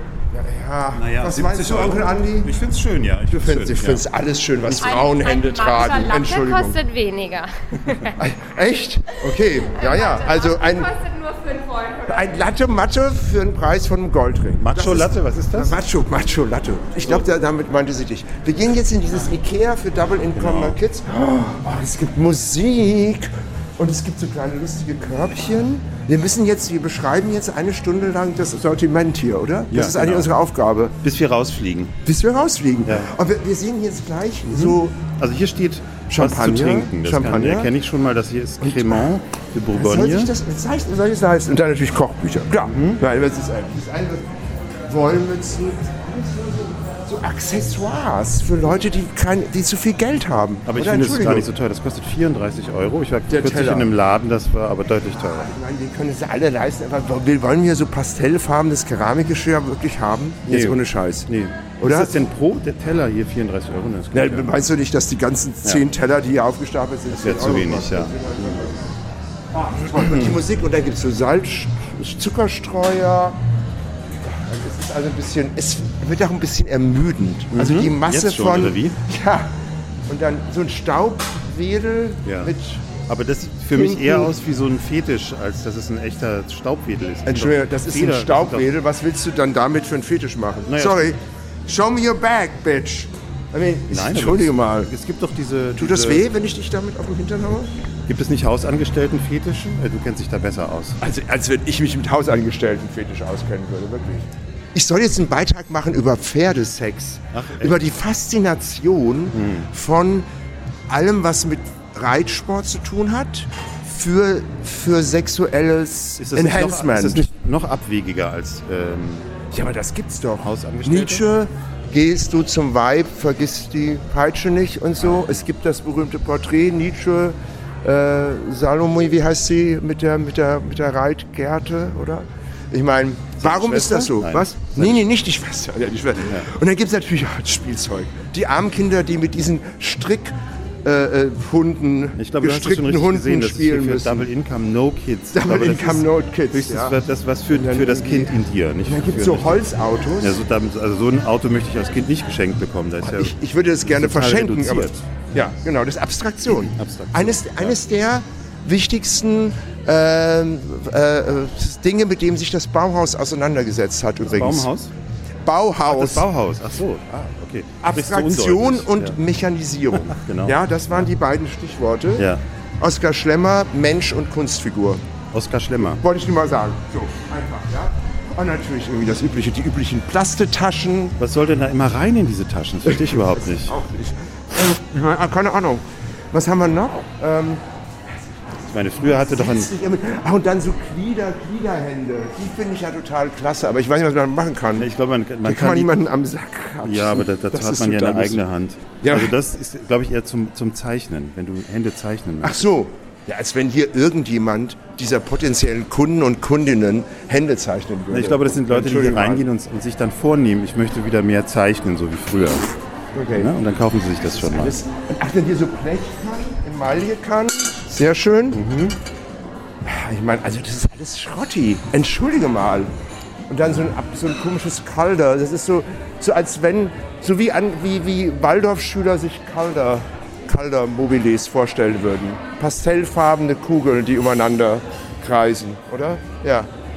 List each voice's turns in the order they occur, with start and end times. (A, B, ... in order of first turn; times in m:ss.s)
0:00.3-0:02.5 A
0:00.9-0:04.0 B
0:03.3-0:06.8 A
0:04.6-0:05.0 B
0:04.8-0:08.1 C
0:08.2-0:10.9 A
0:09.6-0:12.3 C
0:12.0-0:31.0 A
0:14.6-0:15.8 B
0:20.3-0:20.8 B
0:29.7-0:30.3 B
0:31.0-0:32.0 B
0:32.0-0:35.0 A
0:32.8-0:33.1 B
0:34.5-0:40.3 B
0:36.1-0:37.7 A
0:38.6-0:39.1 A
0:39.7-0:44.3 A
0:42.6-0:43.0 B
0:44.9-0:51.5 A
0:50.7-0:55.5 B
0:53.3-0:53.9 A
0:55.2-1:01.3 A
1:00.5-1:04.5 B
1:01.8-1:02.2 A
1:04.1-1:09.0 A
1:07.1-1:08.6 B
1:09.5-1:13.4 A
1:10.0-1:10.3 B
1:14.2-1:19.5 A
1:17.5-1:19.0 B
1:20.0-1:23.0 A
1:22.2-1:22.5 B
1:23.1-1:28.7 B
1:23.7-1:24.3 A
1:27.2-1:34.9 A
1:30.6-1:31.1 B
1:33.9-1:36.3 B
1:35.8-1:37.7 A
1:38.1-1:41.0 B
1:41.0-1:50.3 A
1:47.3-1:47.8 B
1:49.3-1:49.7 B
1:50.9-1:57.2 A
1:56.2-1:59.4 B
1:59.5-2:24.3 A
2:00.4-2:01.3 B
2:13.4-2:15.0 B
2:22.2-2:29.6 B
2:25.3-2:27.0 A
2:27.5-2:30.4 A
2:30.2-2:35.2 B
2:33.0-2:44.7 A
2:36.5-2:37.8 B
2:44.2-2:44.9 B
2:45.4-2:46.3 A
2:45.9-2:49.2 B
2:47.8-2:52.3 A
2:50.0-2:51.1 B
2:52.2-2:52.4 B
2:52.8-2:55.0 A
2:55.3-2:56.0 B
2:55.9-3:01.2 A
3:01.2-3:03.8 B
3:03.4-3:08.2 A
3:08.7-3:09.7 B
3:08.9-3:14.9 A
3:14.8-3:15.9 B
3:15.4-3:18.4 A
3:16.8-3:22.7 B
3:19.0-3:19.3 A
3:22.4-3:29.4 A
3:28.1-3:32.8 B
3:33.1-3:33.5 A
3:33.3-3:34.8 B
3:34.3-3:38.6 A
3:38.5-3:39.0 B
3:39.8-3:42.9 A
3:43.5-3:56.7 A